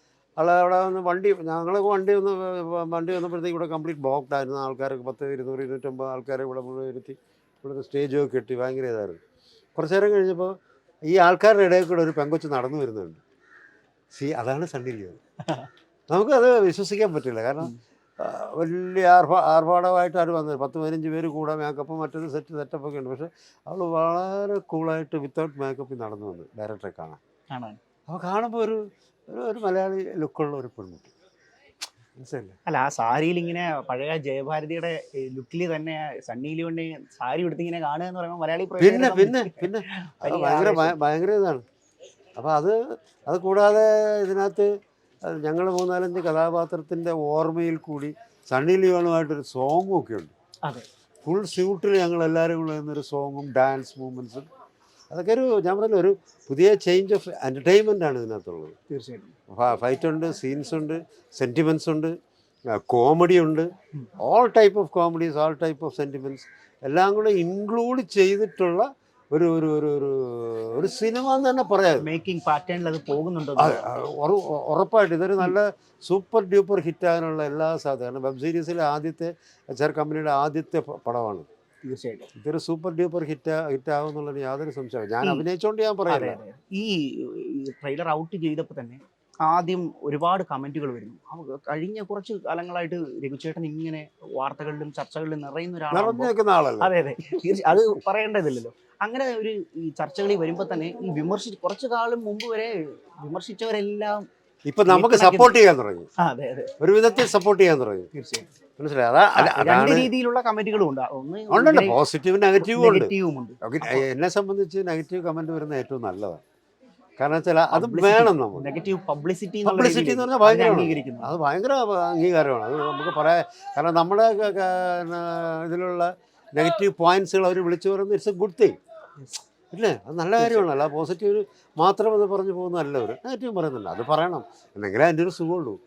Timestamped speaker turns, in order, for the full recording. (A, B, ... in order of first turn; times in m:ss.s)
0:00.4-0:09.2 A
0:09.8-0:10.5 A
0:11.1-0:13.2 A
0:14.1-0:15.2 A
0:16.1-0:27.2 A
0:27.5-0:27.8 B
0:28.1-0:31.1 A
0:32.2-0:32.6 A
0:32.6-0:41.0 B
0:38.8-0:41.6 A
0:42.4-0:44.7 A
0:45.2-0:50.3 A
0:51.2-0:54.4 A
0:55.1-0:58.7 A
0:58.9-0:59.3 B
0:59.5-1:02.1 A
1:02.7-1:03.7 A
1:04.2-1:12.1 A
1:12.0-1:13.8 B
1:13.6-1:21.5 A
1:21.8-1:22.3 B
1:22.4-1:26.4 A
1:26.1-1:44.2 B
1:35.9-1:36.9 A
1:44.7-1:46.1 A
1:44.9-1:45.5 B
1:46.2-1:46.7 B
1:46.8-1:48.1 A
1:48.1-1:48.5 B
1:48.8-1:50.1 A
1:49.4-1:52.0 B
1:51.5-1:53.1 A
1:52.6-1:54.0 B
1:53.6-1:56.4 A
1:57.2-1:58.7 A
1:57.7-2:01.3 B
1:59.6-2:08.8 A
2:09.7-2:15.8 A
2:10.4-2:10.6 B